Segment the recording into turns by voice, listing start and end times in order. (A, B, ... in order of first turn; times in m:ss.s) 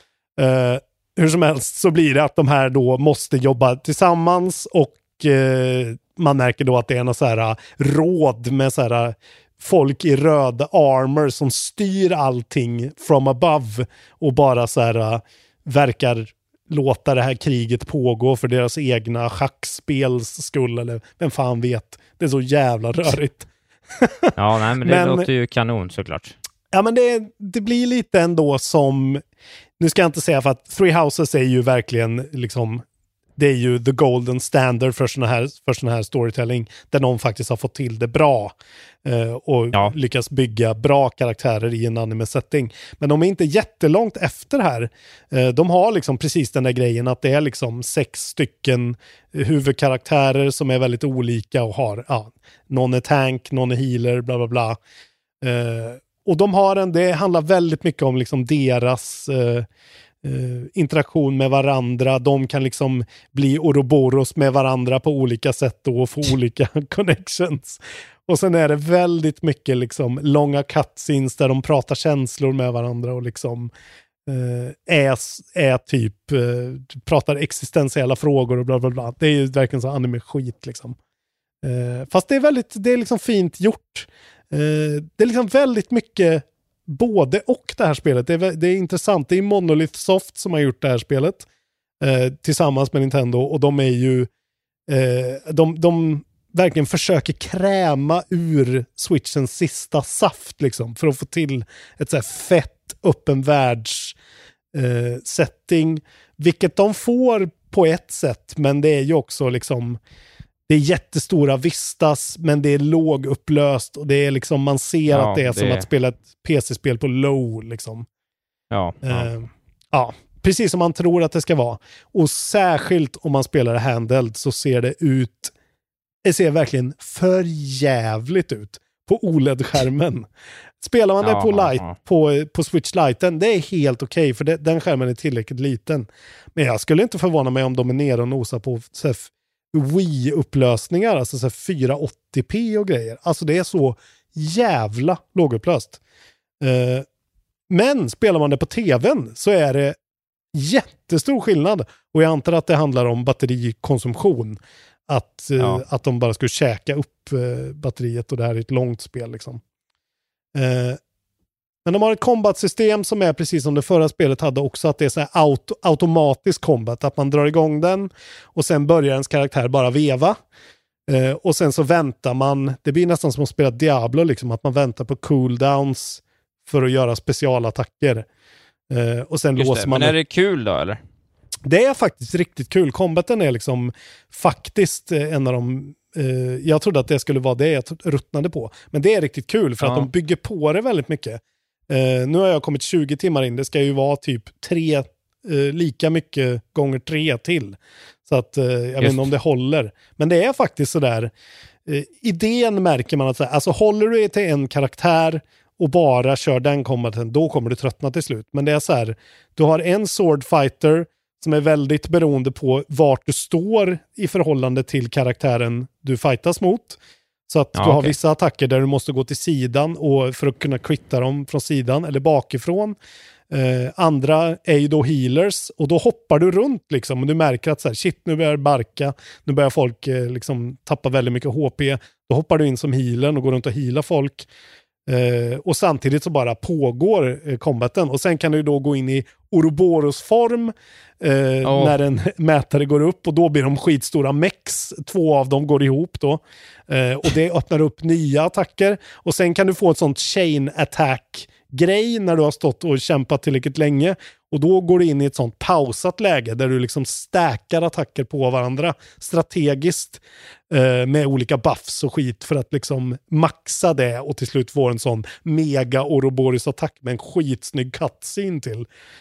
0:00.4-0:25.3 A
0:24.4-0:26.4 B
0:26.7-0:29.2 A
0:29.8-0:32.8 A
0:33.4-0:54.8 A
0:55.4-0:59.7 A
1:00.2-1:13.7 A
1:14.2-1:21.0 A
1:21.6-1:31.5 A
1:32.0-1:34.3 A
1:34.9-1:44.2 A
1:44.7-1:50.0 A
1:50.7-1:58.1 A
1:55.1-1:55.8 B
1:58.7-1:59.3 B
1:59.0-2:05.5 A
2:06.2-2:10.3 A
2:10.8-2:26.0 A
2:11.2-2:12.0 B
2:26.6-2:27.0 A
2:27.7-2:30.0 A
2:30.5-2:39.6 A
2:40.5-2:41.0 A
2:41.8-2:50.4 A
2:51.1-2:58.2 A
2:58.9-3:00.2 A
2:59.6-3:01.0 B
3:01.6-3:21.3 A
3:09.8-3:10.1 B
3:19.0-3:19.3 B
3:21.8-3:43.0 A
3:37.7-3:38.1 B
3:43.5-3:54.5 A
3:55.1-4:28.9 A
4:01.6-4:02.0 B